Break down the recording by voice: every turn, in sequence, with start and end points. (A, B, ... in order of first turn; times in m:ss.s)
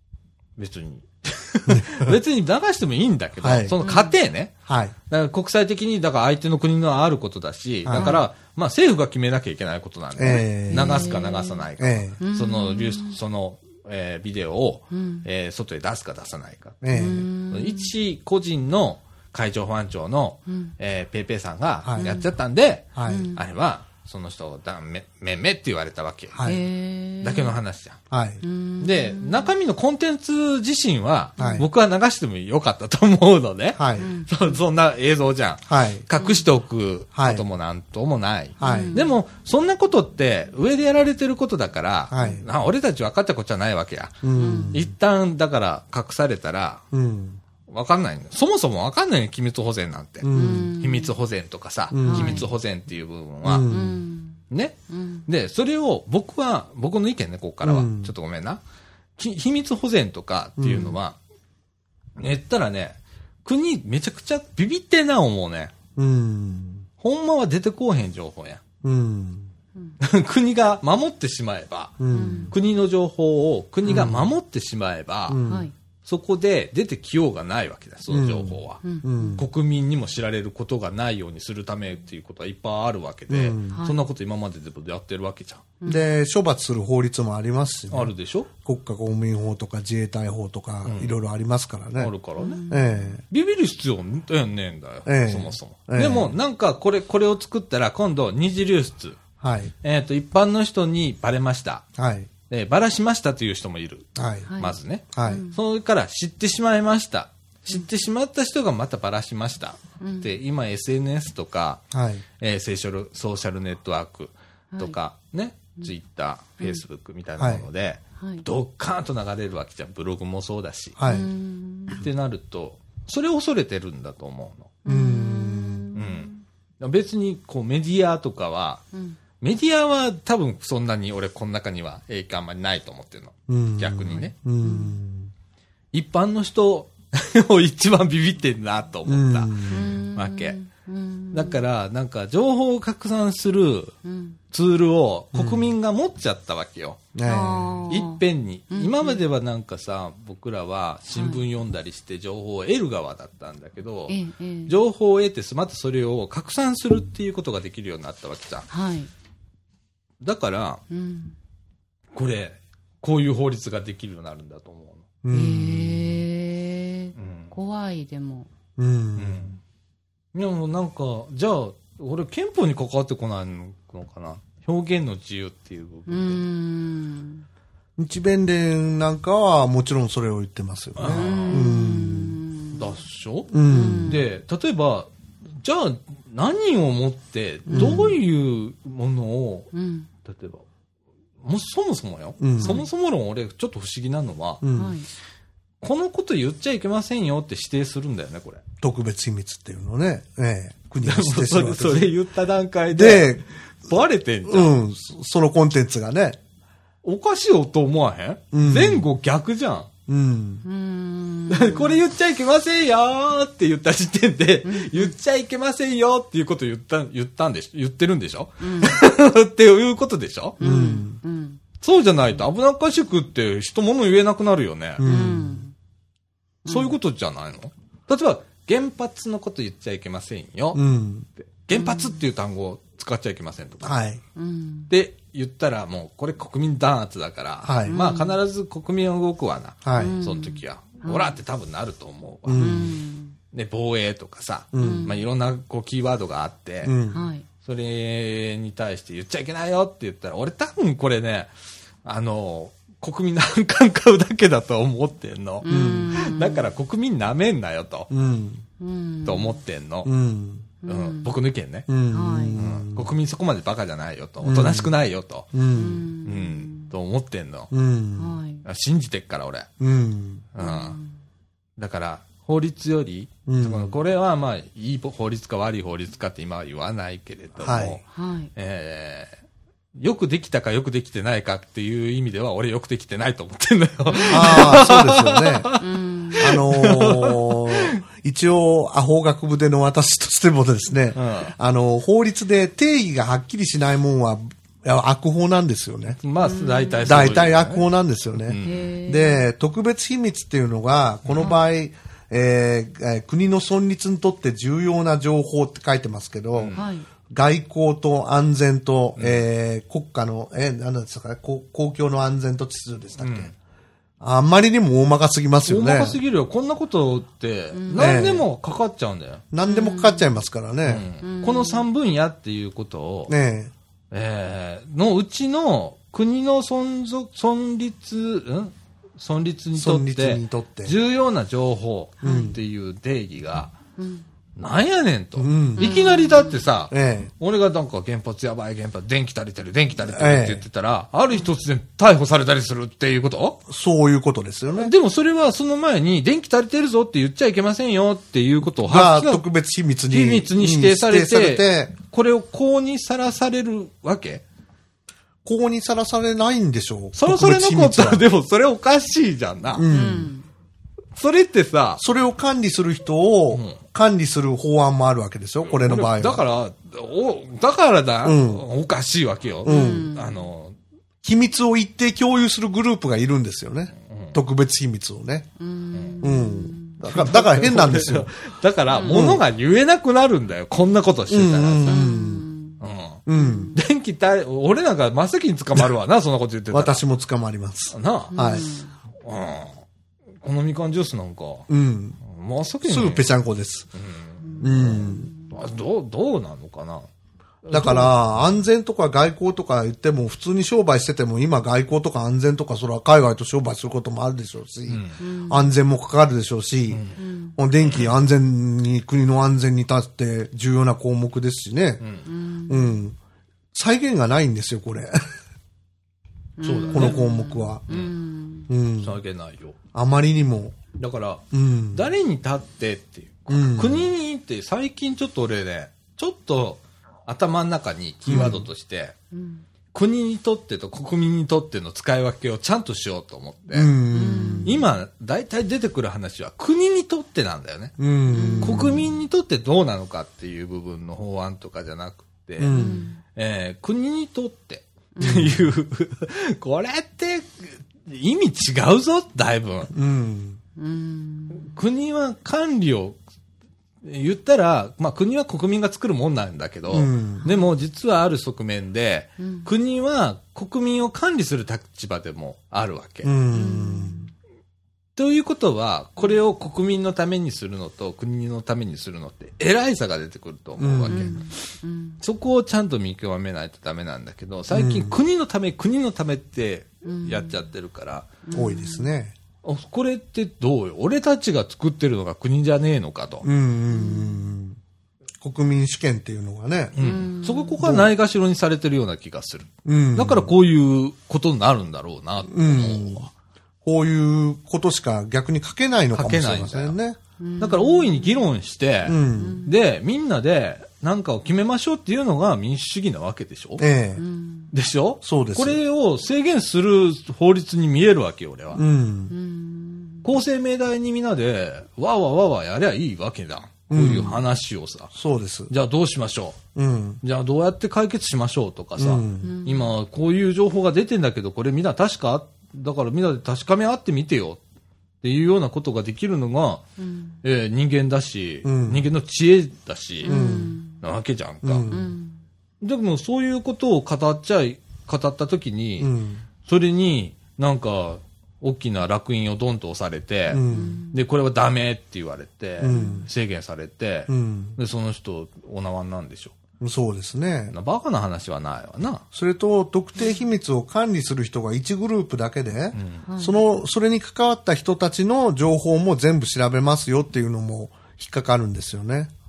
0:00.6-0:04.5 A
0:01.7-0:02.2 B
0:03.4-0:03.8 B
0:03.8-0:04.1 C
0:04.6-0:04.9 B
0:05.1-0:16.8 A
0:07.8-0:08.1 B
0:07.9-0:08.2 C
0:10.1-0:11.1 B
0:10.7-0:11.6 C
0:11.8-0:12.2 B
0:12.2-0:13.2 C
0:14.9-0:15.2 C
0:16.8-0:17.3 B
0:16.9-0:17.9 C
0:17.5-0:26.4 A
0:20.5-0:20.7 C
0:21.8-0:22.1 B
0:22.0-0:22.3 C
0:22.9-0:23.3 B
0:23.0-0:23.4 C
0:26.3-0:26.6 B
0:26.4-0:27.5 C
0:27.2-0:28.0 A
0:28.1-0:28.4 B
0:28.4-0:29.5 C
0:28.8-0:46.8 A
0:31.4-0:31.6 C
0:31.4-0:31.7 B
0:33.8-0:34.1 B
0:34.0-0:34.6 C
0:35.7-0:36.0 B
0:36.2-0:36.4 C
0:37.1-0:37.4 B
0:38.6-0:39.0 B
0:38.6-0:39.1 C
0:42.1-0:42.5 B
0:44.2-0:44.9 B
0:44.3-0:44.8 C
0:46.9-0:47.4 B
0:47.7-0:53.7 A
0:50.2-0:50.8 B
0:50.3-0:51.2 C
0:51.9-0:52.4 B
0:52.1-0:52.5 C
0:53.4-0:54.0 B
0:53.6-0:55.2 C
0:54.5-0:58.6 A
0:57.6-0:58.1 B
0:59.2-1:01.2 A
1:00.6-1:01.0 B
1:02.2-1:05.7 A
1:06.0-1:06.9 B
1:07.0-1:08.6 A
1:08.8-1:09.5 B
1:10.0-1:15.4 A
1:12.0-1:12.5 B
1:12.1-1:12.5 C
1:13.8-1:14.3 B
1:15.3-1:15.7 B
1:15.4-1:15.7 C
1:16.0-1:18.8 A
1:18.1-1:19.4 B
1:18.8-1:19.4 C
1:19.4-1:25.6 A
1:23.3-1:23.8 B
1:23.7-1:24.0 C
1:25.8-1:26.1 C
1:25.8-1:32.1 B
1:27.9-1:28.5 A
1:30.8-1:31.2 A
1:32.0-1:32.6 A
1:32.4-1:33.1 C
1:32.7-1:33.2 B
1:33.3-1:39.2 A
1:35.0-1:36.3 B
1:39.4-1:39.7 B
1:39.8-1:41.8 A
1:42.0-1:42.3 B
1:42.5-1:51.8 A
1:44.2-1:44.5 B
1:44.4-1:45.6 C
1:45.1-1:45.4 B
1:50.0-1:50.4 C
1:51.9-1:52.2 B
1:52.4-2:01.0 A
1:57.4-1:57.6 B
1:58.2-1:58.4 C
2:01.0-2:01.3 B
2:01.0-2:02.0 C
2:01.9-2:04.7 A
2:04.8-2:06.4 C
2:04.8-2:05.9 B
2:05.9-2:08.8 A
2:08.9-2:09.2 C
2:09.4-2:14.3 A
2:13.5-2:15.3 B
2:14.1-2:15.0 C
2:15.9-2:20.6 A
2:19.0-2:20.0 B
2:19.7-2:21.6 C
2:21.3-2:24.0 A
2:24.0-2:24.4 C
2:24.5-2:27.0 A
2:25.3-2:25.7 B
2:27.1-2:27.9 B
2:27.2-2:29.2 C
2:27.9-2:34.2 A
2:31.1-2:31.4 C
2:34.1-2:34.7 C
2:34.7-2:38.7 A
2:38.7-2:39.1 C
2:40.2-2:40.8 A
2:40.9-2:41.4 C
2:42.1-2:45.0 A
2:45.2-2:46.2 B
2:45.3-2:48.5 C
2:47.2-2:47.5 A
2:48.8-2:49.5 B
2:49.2-2:49.6 A
2:50.3-2:56.4 A
2:56.1-2:57.4 C
2:58.0-3:02.4 B
3:01.0-3:01.7 A
3:01.1-3:02.8 C
3:02.7-3:05.1 A
3:03.5-3:04.2 B
3:03.7-3:04.2 C
3:05.6-3:09.7 A
3:07.7-3:08.1 B
3:07.7-3:08.0 C
3:09.7-3:10.1 C
3:10.2-3:10.6 A
3:11.4-3:14.6 A
3:12.4-3:12.8 B
3:12.6-3:12.9 C
3:14.6-3:15.0 B
3:14.7-3:15.1 C
3:15.8-3:18.6 A
3:18.8-3:22.1 B
3:21.0-3:24.7 A
3:22.9-3:23.4 B
3:24.4-3:26.4 B
3:27.0-3:29.9 A
3:28.5-3:29.0 B
3:30.1-3:30.6 B
3:30.6-3:32.0 C
3:31.5-3:40.6 A
3:34.6-3:35.1 C
3:38.6-3:39.0 C
3:40.6-3:41.6 C
3:40.6-3:41.2 B
3:41.8-3:45.0 A
3:45.0-3:45.6 B
3:45.0-3:45.7 C
3:46.6-3:46.9 C
3:46.6-3:50.8 A
3:50.7-3:51.3 B
3:51.4-3:53.9 A
3:51.7-3:52.2 C
3:53.8-3:54.2 B
3:54.4-3:54.9 C
3:54.9-4:02.9 A
3:57.6-3:58.0 B
3:57.9-3:58.4 C
3:59.8-4:00.2 B
3:59.9-4:01.4 C
4:02.4-4:03.0 B
4:02.6-4:03.4 C
4:03.5-4:06.9 A
4:04.7-4:05.1 B
4:04.8-4:05.2 C
4:06.8-4:07.3 B
4:07.1-4:07.4 C
4:07.6-4:11.5 A
4:12.0-4:18.1 A
4:15.6-4:16.7 C
4:15.7-4:16.2 B
4:18.1-4:18.6 B
4:18.8-4:19.6 C
4:19.2-4:20.1 A
4:20.0-4:20.7 B
4:20.8-4:21.3 C
4:20.8-4:21.9 A
4:21.9-4:23.1 B
4:22.1-4:22.6 C
4:22.6-4:25.5 A
4:24.4-4:24.9 B
4:25.5-4:26.1 B
4:25.7-4:26.9 C
4:26.2-4:27.7 A
4:27.7-4:28.4 B
4:28.2-4:28.6 C
4:28.6-4:29.7 A
4:29.8-4:30.5 B
4:30.5-4:31.0 A
4:30.6-4:31.2 C
4:31.8-4:38.0 A
4:33.4-4:33.9 B
4:37.6-4:38.0 B
4:38.1-4:38.5 C
4:38.5-4:39.4 A
4:40.0-4:45.9 A
4:44.1-4:44.8 C
4:44.3-4:45.7 B
4:45.8-4:46.5 C
4:46.4-4:48.0 A
4:46.4-4:56.2 B
4:51.1-4:51.5 A
4:56.2-4:57.9 A
4:56.4-4:57.2 C
4:57.0-5:06.8 B
4:58.4-4:58.9 A
4:58.6-4:59.4 C
5:06.5-5:06.9 A
5:06.8-5:07.1 C
5:07.3-5:13.5 B
5:09.2-5:09.4 A
5:13.2-5:13.5 A
5:14.2-5:16.2 B
5:15.6-5:19.4 A
5:17.7-5:18.2 C
5:18.0-5:18.5 B
5:19.5-5:21.1 B
5:19.6-5:20.3 C
5:20.8-5:23.3 A
5:21.2-5:21.9 C
5:23.3-5:23.7 B
5:24.1-5:33.7 A
5:29.7-5:30.9 B
5:32.2-5:32.6 C
5:32.2-5:32.6 B
5:34.0-5:34.2 C
5:34.6-5:43.6 A
5:35.4-5:35.9 B
5:35.8-5:36.6 C
5:36.9-5:37.3 B
5:40.0-5:40.6 B
5:43.7-5:44.9 B
5:44.7-5:49.4 A
5:48.8-5:51.9 B
5:50.1-5:54.4 A
5:55.4-5:58.2 B
5:57.1-5:59.8 A
5:59.8-6:00.3 B
5:59.9-6:00.5 C
6:01.2-6:02.0 A
6:02.0-6:06.4 B
6:03.5-6:03.8 A
6:05.6-6:10.8 A
6:08.2-6:08.6 B
6:09.6-6:10.1 B
6:09.6-6:10.5 C
6:11.2-6:15.5 B
6:14.0-6:14.4 A
6:15.6-6:17.0 C
6:15.9-6:16.2 A
6:16.2-6:18.3 B
6:17.1-6:22.0 A
6:18.9-6:19.3 C
6:19.1-6:19.4 B
6:21.3-6:22.4 B
6:21.9-6:22.8 C
6:22.8-6:23.2 A
6:23.2-6:23.7 B
6:23.3-6:23.8 C
6:23.7-6:27.0 A
6:26.7-6:28.7 B
6:27.9-6:28.3 A
6:28.3-6:28.9 C
6:29.2-6:29.8 A
6:30.4-6:31.7 A
6:31.7-6:32.2 B
6:32.2-6:33.3 A
6:32.8-6:33.9 B
6:33.9-6:37.1 A
6:34.4-6:35.5 C
6:34.6-6:35.3 B
6:37.6-6:38.5 A
6:37.7-6:47.0 B
6:44.9-6:45.2 A
6:45.2-6:45.7 C
6:46.9-6:47.2 A
6:47.2-6:47.6 C
6:47.6-6:52.0 B
6:47.8-6:48.1 A
6:52.0-6:52.2 A
6:52.2-6:53.0 C
6:52.7-6:53.2 B
6:53.7-6:55.4 B
6:56.6-6:58.7 C
6:56.6-6:57.2 A
6:56.9-6:57.8 B
6:57.9-6:58.1 A
6:58.7-6:59.1 B
6:59.0-6:59.8 A
6:59.9-7:00.8 B
7:01.0-7:09.1 A
7:01.5-7:02.1 B
7:03.5-7:04.1 B
7:08.2-7:08.6 B
7:09.3-7:09.6 C
7:09.9-7:13.9 A
7:13.7-7:14.8 B
7:14.1-7:14.9 C
7:14.6-7:17.9 A
7:18.0-7:19.1 B
7:18.3-7:19.0 C
7:18.6-7:29.9 A
7:22.6-7:23.0 B
7:22.7-7:23.2 C
7:25.2-7:25.6 C
7:29.9-7:30.6 B
7:30.8-7:31.8 C
7:31.5-7:33.2 A
7:34.0-7:43.3 A
7:36.9-7:37.4 B
7:37.4-7:37.7 C
7:39.4-7:39.7 C
7:43.2-7:44.3 B
7:43.5-7:44.3 C
7:45.2-7:51.5 A
7:50.8-7:51.4 B
7:51.1-7:52.2 C
7:52.2-7:58.3 A
7:54.7-7:55.2 B
7:57.0-7:57.6 C
7:58.4-7:59.1 C
7:58.5-7:59.4 B
7:59.6-8:03.4 A
8:03.4-8:04.8 B
8:03.9-8:04.5 C
8:05.4-8:07.0 B
8:07.0-8:13.3 A
8:07.0-8:07.8 C
8:07.8-8:08.1 B
8:09.8-8:10.5 B
8:12.5-8:13.3 B
8:13.8-8:17.2 B
8:16.1-8:17.0 A
8:17.4-8:18.5 C
8:17.6-8:23.8 A
8:19.0-8:19.7 B
8:19.3-8:19.7 C
8:23.8-8:24.2 B
8:24.2-8:24.7 C
8:24.7-8:28.8 A
8:25.2-8:25.8 B
8:28.7-8:29.3 B
8:29.3-8:30.3 C
8:30.2-8:35.1 A
8:33.9-8:34.4 B
8:35.1-8:35.7 B
8:35.7-8:36.6 A
8:36.7-8:37.2 B
8:37.2-8:44.6 A
8:39.0-8:39.6 B
8:39.4-8:39.9 C
8:45.2-8:46.8 A
8:47.0-8:47.4 C
8:47.4-8:50.3 A
8:48.6-8:49.1 B
8:50.2-8:51.0 C
8:50.2-8:50.8 B
8:51.0-8:51.9 A
8:51.6-8:52.1 B
8:51.9-8:52.4 C
8:52.8-8:56.1 A
8:56.0-8:56.4 B
8:56.6-9:06.5 A
9:00.5-9:01.0 B
9:00.7-9:01.2 C
9:02.8-9:03.3 B
9:02.9-9:03.3 C
9:04.3-9:04.8 B
9:06.8-9:07.7 B
9:07.7-9:09.2 A
9:09.3-9:19.3 B
9:12.9-9:13.2 A
9:13.3-9:13.6 C